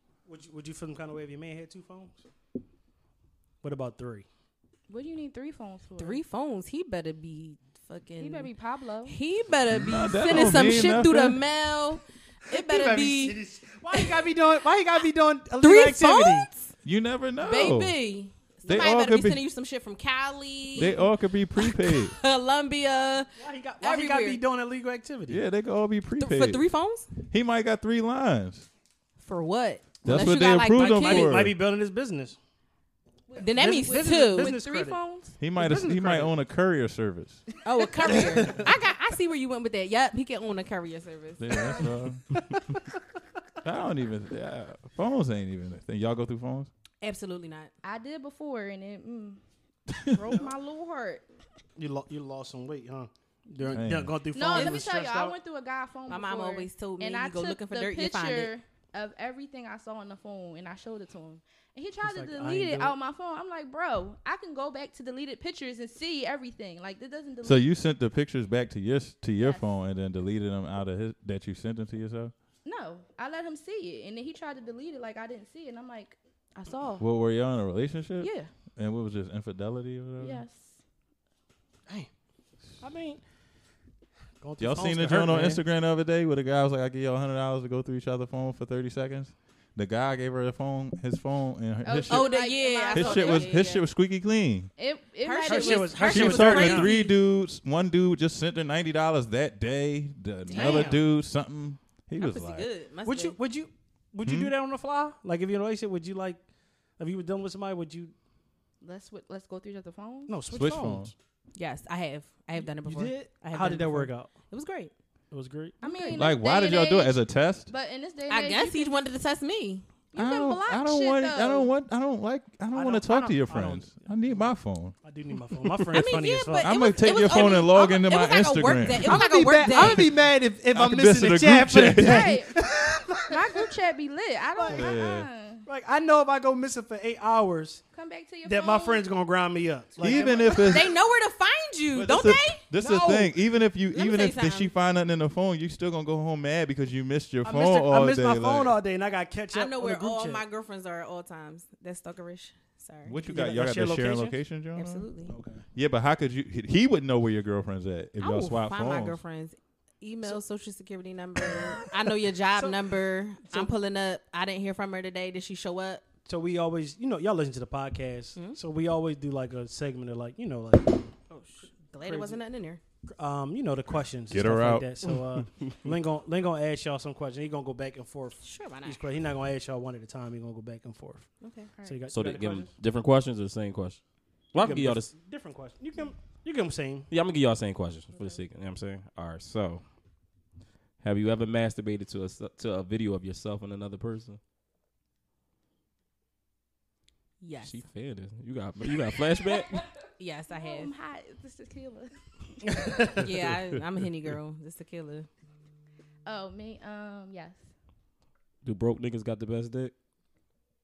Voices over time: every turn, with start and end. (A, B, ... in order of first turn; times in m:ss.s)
0:00.2-0:02.2 A
0:03.6-0:04.2 A
0:04.9-0:06.2 B
0:06.0-0:08.5 C
0:08.2-0:09.2 B
0:09.0-0:13.4 C
0:09.7-0:11.4 D
0:12.5-0:16.5 A
0:13.9-0:14.3 C
0:15.6-0:16.7 C
0:16.8-0:17.9 D
0:17.4-0:24.4 C
0:18.6-0:19.4 D
0:20.7-0:22.1 D
0:23.4-0:25.4 A
0:25.3-0:26.6 D
0:26.2-0:27.1 C
0:27.2-0:28.6 D
0:29.2-0:31.4 C
0:30.0-0:31.5 D
0:30.7-0:32.4 A
0:33.3-0:35.4 B
0:33.4-0:34.6 C
0:33.5-0:35.0 A
0:35.4-0:37.4 D
0:35.6-0:36.3 A
0:37.6-0:41.9 C
0:38.1-0:38.7 A
0:41.4-0:42.4 D
0:43.6-0:46.7 D
0:47.0-0:47.7 C
0:47.8-0:49.4 B
0:50.0-0:51.2 B
0:51.8-0:55.3 A
0:53.7-0:54.1 D
0:54.3-1:07.7 B
0:54.5-0:54.8 C
0:56.1-0:58.5 C
1:02.0-1:02.9 A
1:07.4-1:12.3 D
1:09.4-1:09.7 B
1:12.6-1:17.0 B
1:17.0-1:20.4 D
1:18.2-1:18.4 C
1:20.2-1:20.8 B
1:22.8-1:23.2 A
1:24.4-1:25.6 A
1:24.6-1:34.7 D
1:31.8-1:33.6 B
1:32.1-1:33.8 C
1:34.8-1:37.1 B
1:35.2-1:36.9 C
1:35.5-1:36.9 A
1:36.0-1:42.7 D
1:40.5-1:41.0 C
1:40.5-1:41.0 A
1:42.2-1:43.4 C
1:43.0-1:46.4 A
1:44.2-1:44.5 D
1:47.0-1:48.1 A
1:48.8-1:50.3 B
1:50.3-1:51.1 A
1:50.5-1:51.1 D
1:51.6-1:54.9 C
1:52.6-1:54.3 A
1:55.3-1:55.8 A
1:55.8-1:56.2 C
1:55.8-1:59.0 B
1:56.1-1:57.7 D
1:58.3-1:59.8 C
2:00.1-2:01.7 B
2:00.1-2:05.0 D
2:02.7-2:04.4 A
2:05.0-2:07.5 A
2:05.9-2:10.1 C
2:06.6-2:10.2 D
2:09.0-2:13.6 A
2:10.7-2:12.4 D
2:12.0-2:12.6 B
2:13.3-2:15.6 B
2:14.6-2:14.9 A
2:14.7-2:15.3 D
2:15.6-2:17.8 A
2:17.9-2:19.0 B
2:18.4-2:20.9 A
2:20.0-2:20.9 D
2:20.6-2:22.6 C
2:21.9-2:28.8 D
2:22.7-2:23.3 A
2:23.9-2:24.7 C
2:27.4-2:30.4 A
2:29.5-2:33.2 C
2:33.0-2:35.0 D
2:33.3-2:34.4 A
2:34.7-2:35.3 C
2:35.3-2:35.6 A
2:35.7-2:39.2 D
2:38.2-2:46.0 C
2:42.5-2:42.8 A
2:46.2-2:51.2 A
2:51.3-2:52.8 C
2:52.0-2:52.4 A
2:53.2-3:02.7 A
2:54.3-2:55.0 D
2:58.4-2:59.0 C
3:01.4-3:01.7 C
3:02.1-3:05.1 E
3:04.6-3:07.1 A
3:07.1-3:09.8 E
3:08.1-3:08.4 C
3:11.0-3:14.4 E
3:17.4-3:17.8 C
3:17.6-3:19.8 E
3:20.2-3:20.9 C
3:20.5-3:23.2 B
3:22.8-3:23.1 A
3:23.1-3:25.3 C
3:26.2-3:27.6 B
3:28.6-3:29.9 E